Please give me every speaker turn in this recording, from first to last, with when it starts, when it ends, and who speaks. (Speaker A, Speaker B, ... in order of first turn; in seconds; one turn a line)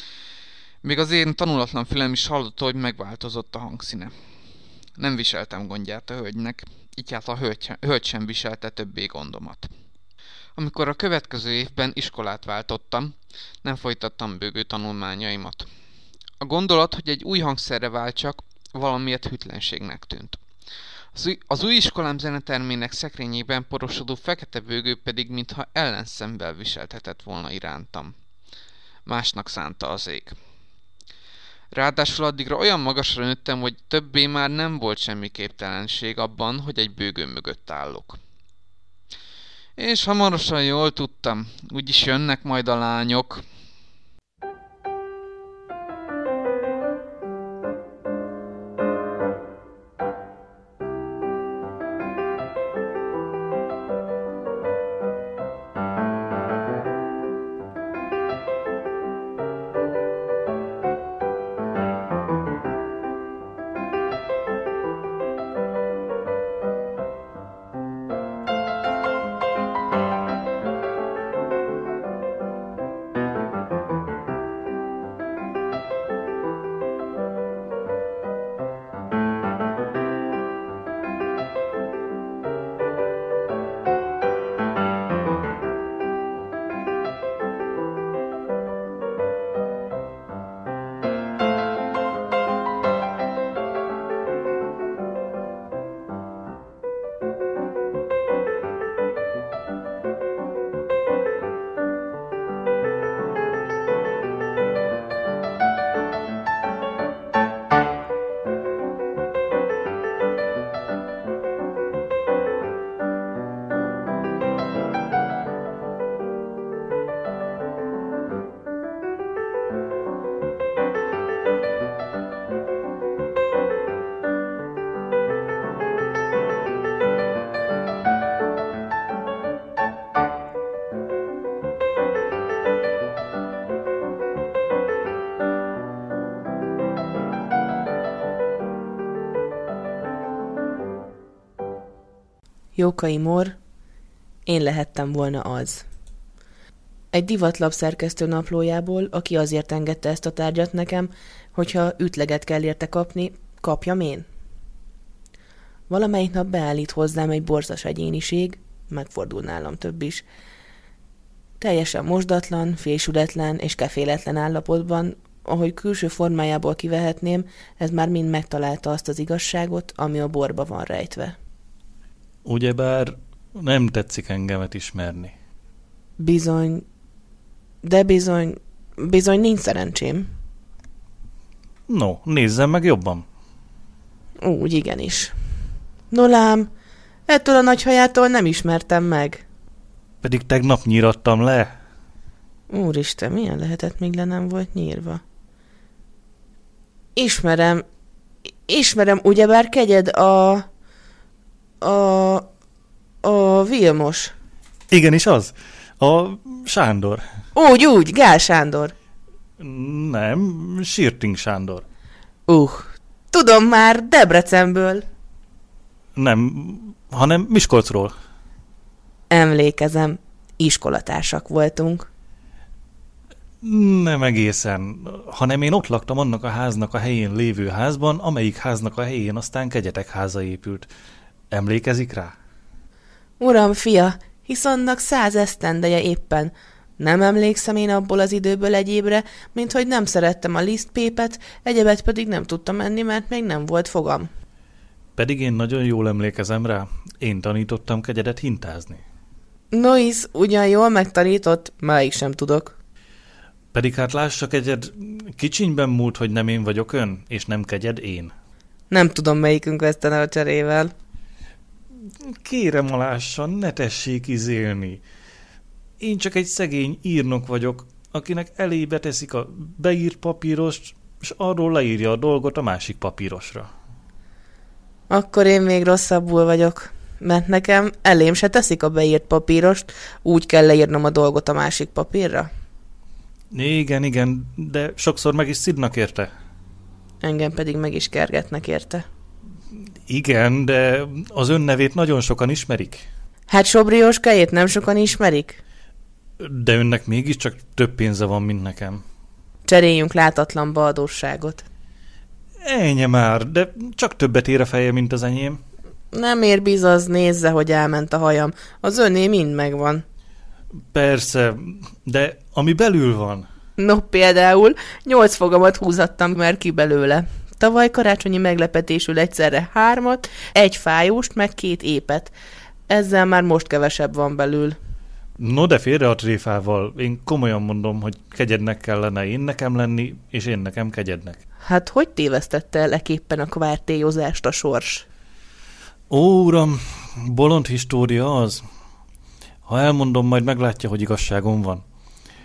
Speaker A: 0.8-4.1
Speaker A: 5.0-9.7
Speaker A: 10.6-15.7
Speaker A: 16.4-20.4
Speaker A: 21.1-28.1
Speaker A: 29.1-30.4
Speaker A: 31.7-38.2
Speaker A: 39.8-43.4
Speaker B: 142.8-143.6
Speaker B: 144.5-145.8
Speaker B: 147.1-154.3
Speaker B: 155.9-160.2
Speaker B: 161.6-171.3
Speaker C: 172.4-175.3
Speaker B: 176.2-176.8
Speaker B: 177.8-180.3
Speaker C: 181.9-183.2
Speaker B: 184.4-185.3
Speaker B: 186.1-186.7
Speaker B: 187.3-189.4
Speaker C: 190.2-191.8
Speaker B: 192.7-195.2
Speaker B: 197.2-197.8
Speaker B: 198.7-200.7
Speaker B: 201.8-202.5
Speaker B: 203.2-204.3
Speaker C: 204.9-207.2
Speaker B: 207.5-208.9
Speaker C: 209.6-211.8
Speaker B: 212.5-215.1
Speaker C: 216.2-218.1
Speaker B: 219.3-222.1
Speaker C: 223.6-230.9
Speaker C: 231.5-232.3
Speaker B: 233.4-244.3
Speaker C: 245.2-249.0
Speaker B: 249.7-252.7
Speaker C: 253.7-258.3
Speaker B: 258.9-260.9
Speaker C: 262.2-265.0
Speaker C: 266.0-273.7
Speaker B: 275.1-282.5
Speaker C: 283.5-286.3
Speaker B: 287.2-289.0
Speaker C: 290.1-293.1
Speaker B: 293.5-295.6
Speaker C: 296.4-299.0
Speaker B: 299.7-301.6
Speaker C: 302.6-305.6
Speaker B: 306.1-310.0
Speaker C: 310.9-313.4
Speaker B: 313.8-322.3
Speaker B: 322.9-324.8
Speaker C: 325.4-331.4
Speaker B: 331.6-335.0
Speaker C: 336.1-338.6
Speaker C: 339.6-341.8